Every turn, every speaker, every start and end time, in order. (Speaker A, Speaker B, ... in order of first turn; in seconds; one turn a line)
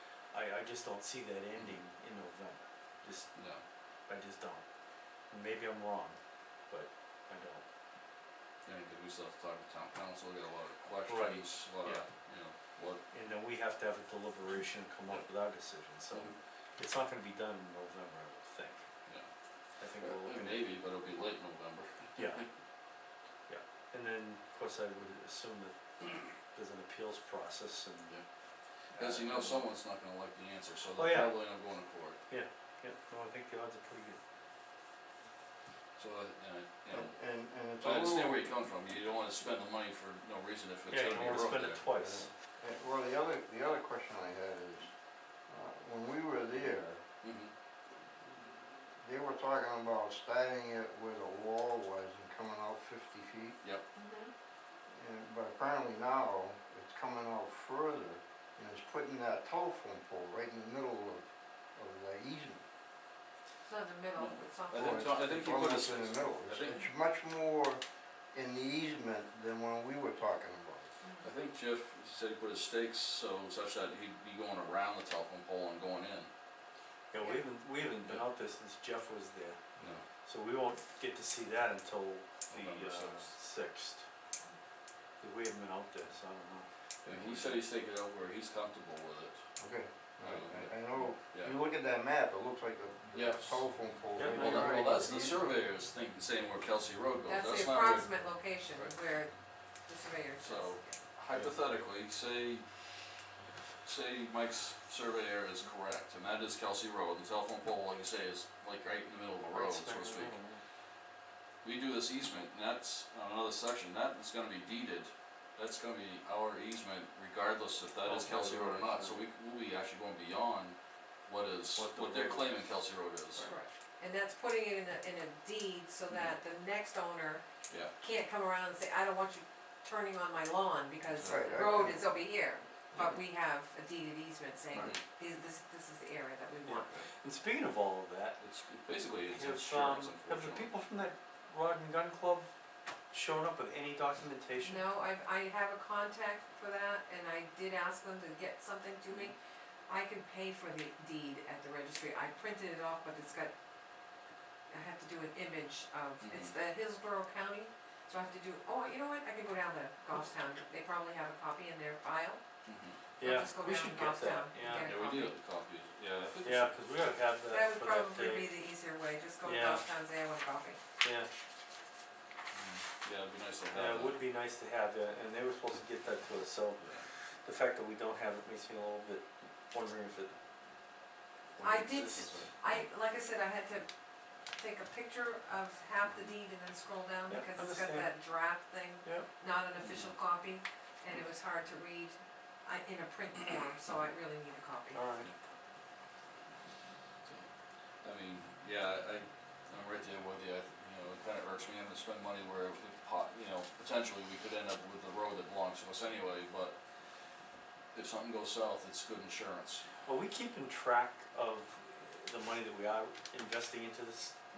Speaker A: 0.3-3.3
Speaker B: 3.3-3.6
Speaker A: 4.1-4.6
Speaker A: 5.3-6.2
Speaker A: 6.7-7.6
Speaker B: 8.6-13.0
Speaker A: 11.1-12.0
Speaker A: 13.1-18.8
Speaker A: 19.8-20.6
Speaker B: 20.0-22.4
Speaker A: 22.1-22.4
Speaker A: 23.5-25.7
Speaker A: 26.4-28.1
Speaker B: 28.9-32.2
Speaker A: 28.9-29.6
Speaker A: 30.9-31.4
Speaker A: 32.3-34.2
Speaker B: 36.0-37.1
Speaker C: 36.9-38.4
Speaker B: 37.8-41.8
Speaker A: 40.9-42.3
Speaker C: 42.0-44.9
Speaker C: 45.5-47.0
Speaker B: 47.2-47.5
Speaker C: 49.0-53.6
Speaker D: 54.0-54.3
Speaker C: 54.9-62.6
Speaker D: 63.6-65.2
Speaker B: 64.2-66.8
Speaker C: 64.7-67.8
Speaker C: 68.3-70.9
Speaker D: 71.0-71.3
Speaker B: 71.2-76.3
Speaker A: 77.1-79.6
Speaker A: 80.2-84.0
Speaker B: 82.5-83.3
Speaker A: 85.2-87.5
Speaker B: 87.0-89.4
Speaker C: 89.6-95.4
Speaker B: 90.2-90.7
Speaker B: 91.3-91.6
Speaker B: 93.1-93.6
Speaker A: 94.2-95.1
Speaker B: 94.2-98.2
Speaker D: 97.2-101.0
Speaker B: 100.4-102.6
Speaker B: 103.8-110.3
Speaker A: 109.5-110.6
Speaker B: 111.6-123.5
Speaker A: 118.0-119.2
Speaker A: 121.7-122.7
Speaker D: 123.4-127.4
Speaker B: 126.1-126.3
Speaker D: 128.0-137.1
Speaker B: 131.1-131.8
Speaker C: 131.3-132.0
Speaker B: 132.9-133.2
Speaker A: 136.6-138.4
Speaker B: 138.4-140.7
Speaker A: 139.3-142.5
Speaker A: 143.1-144.8
Speaker D: 144.6-149.3
Speaker D: 149.9-153.5
Speaker D: 154.7-162.4
Speaker B: 156.2-156.5
Speaker B: 162.7-163.0
Speaker A: 163.2-164.9
Speaker D: 163.2-165.3
Speaker B: 164.7-167.2
Speaker A: 166.4-168.5
Speaker D: 167.5-170.8
Speaker A: 169.4-169.8
Speaker A: 171.0-171.3
Speaker B: 172.5-174.2
Speaker A: 173.7-176.8
Speaker B: 176.8-177.0
Speaker A: 177.4-180.4
Speaker B: 181.6-182.5
Speaker D: 181.6-183.9
Speaker D: 184.5-195.0
Speaker A: 187.3-188.1
Speaker B: 189.8-190.1
Speaker A: 194.9-195.3
Speaker B: 198.0-206.8
Speaker B: 207.9-209.8
Speaker A: 210.0-214.3